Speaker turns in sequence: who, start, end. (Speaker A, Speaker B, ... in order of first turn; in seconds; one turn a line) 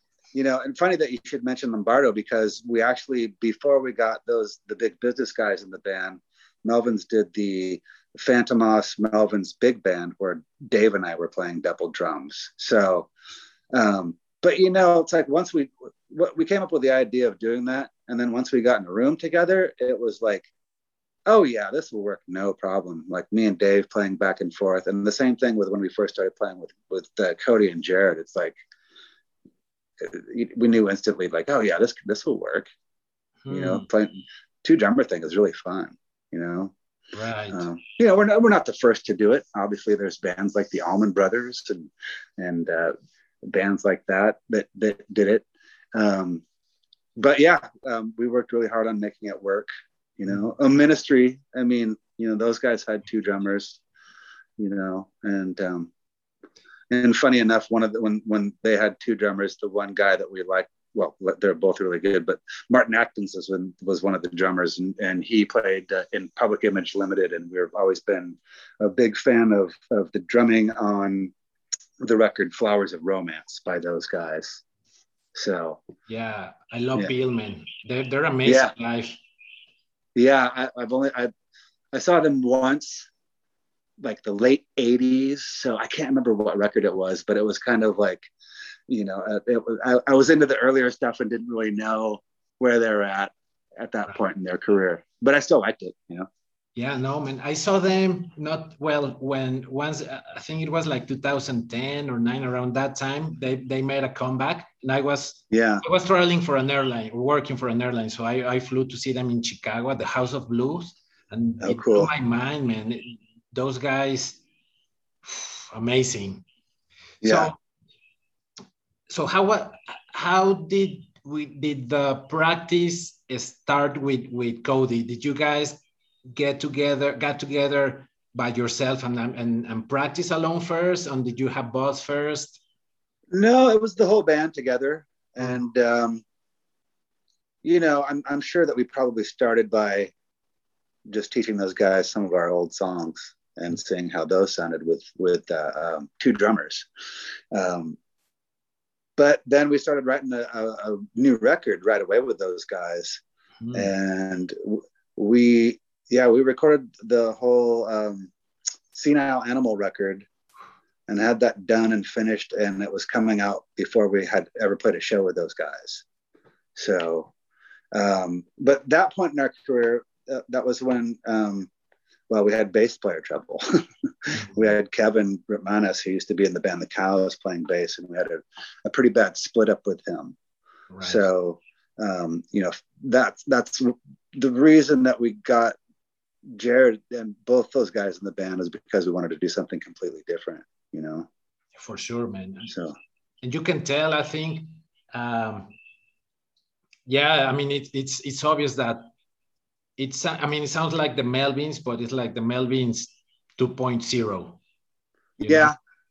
Speaker A: 0.3-13.1
Speaker A: 13.7-20.5
Speaker A: 21.3-28.5
Speaker A: 30.0-32.7
Speaker B: 33.4-33.9
Speaker A: 33.5-36.7
Speaker B: 37.1-37.6
Speaker A: 37.5-46.4
Speaker A: 47.2-53.8
Speaker A: 54.6-55.9
Speaker A: 56.9-71.3
Speaker A: 72.0-74.6
Speaker A: 75.3-75.8
Speaker B: 76.1-79.2
Speaker A: 78.4-78.7
Speaker A: 80.1-81.3
Speaker A: 81.9-83.1
Speaker A: 84.0-88.3
Speaker A: 88.9-96.3
Speaker B: 96.8-114.4
Speaker A: 105.5-105.8
Speaker A: 111.6-112.1
Speaker B: 115.2-116.4
Speaker A: 117.2-117.5
Speaker B: 117.2-117.6
Speaker B: 119.1-125.8
Speaker B: 126.3-132.6
Speaker A: 133.3-136.2
Speaker A: 137.6-140.1
Speaker A: 141.1-146.9
Speaker A: 147.5-148.0
Speaker A: 149.2-153.2
Speaker B: 153.6-153.9
Speaker A: 153.7-158.3
Speaker A: 158.9-160.3
Speaker A: 161.1-166.0
Speaker A: 166.8-167.3
Speaker A: 167.9-171.7
Speaker A: 172.3-180.3
Speaker B: 180.9-181.2
Speaker A: 181.0-185.8
Speaker A: 186.5-191.3
Speaker B: 191.8-192.7
Speaker A: 192.7-192.9
Speaker B: 193.4-195.7
Speaker B: 197.1-199.1
Speaker B: 200.0-204.6
Speaker B: 205.4-205.7
Speaker A: 205.4-205.7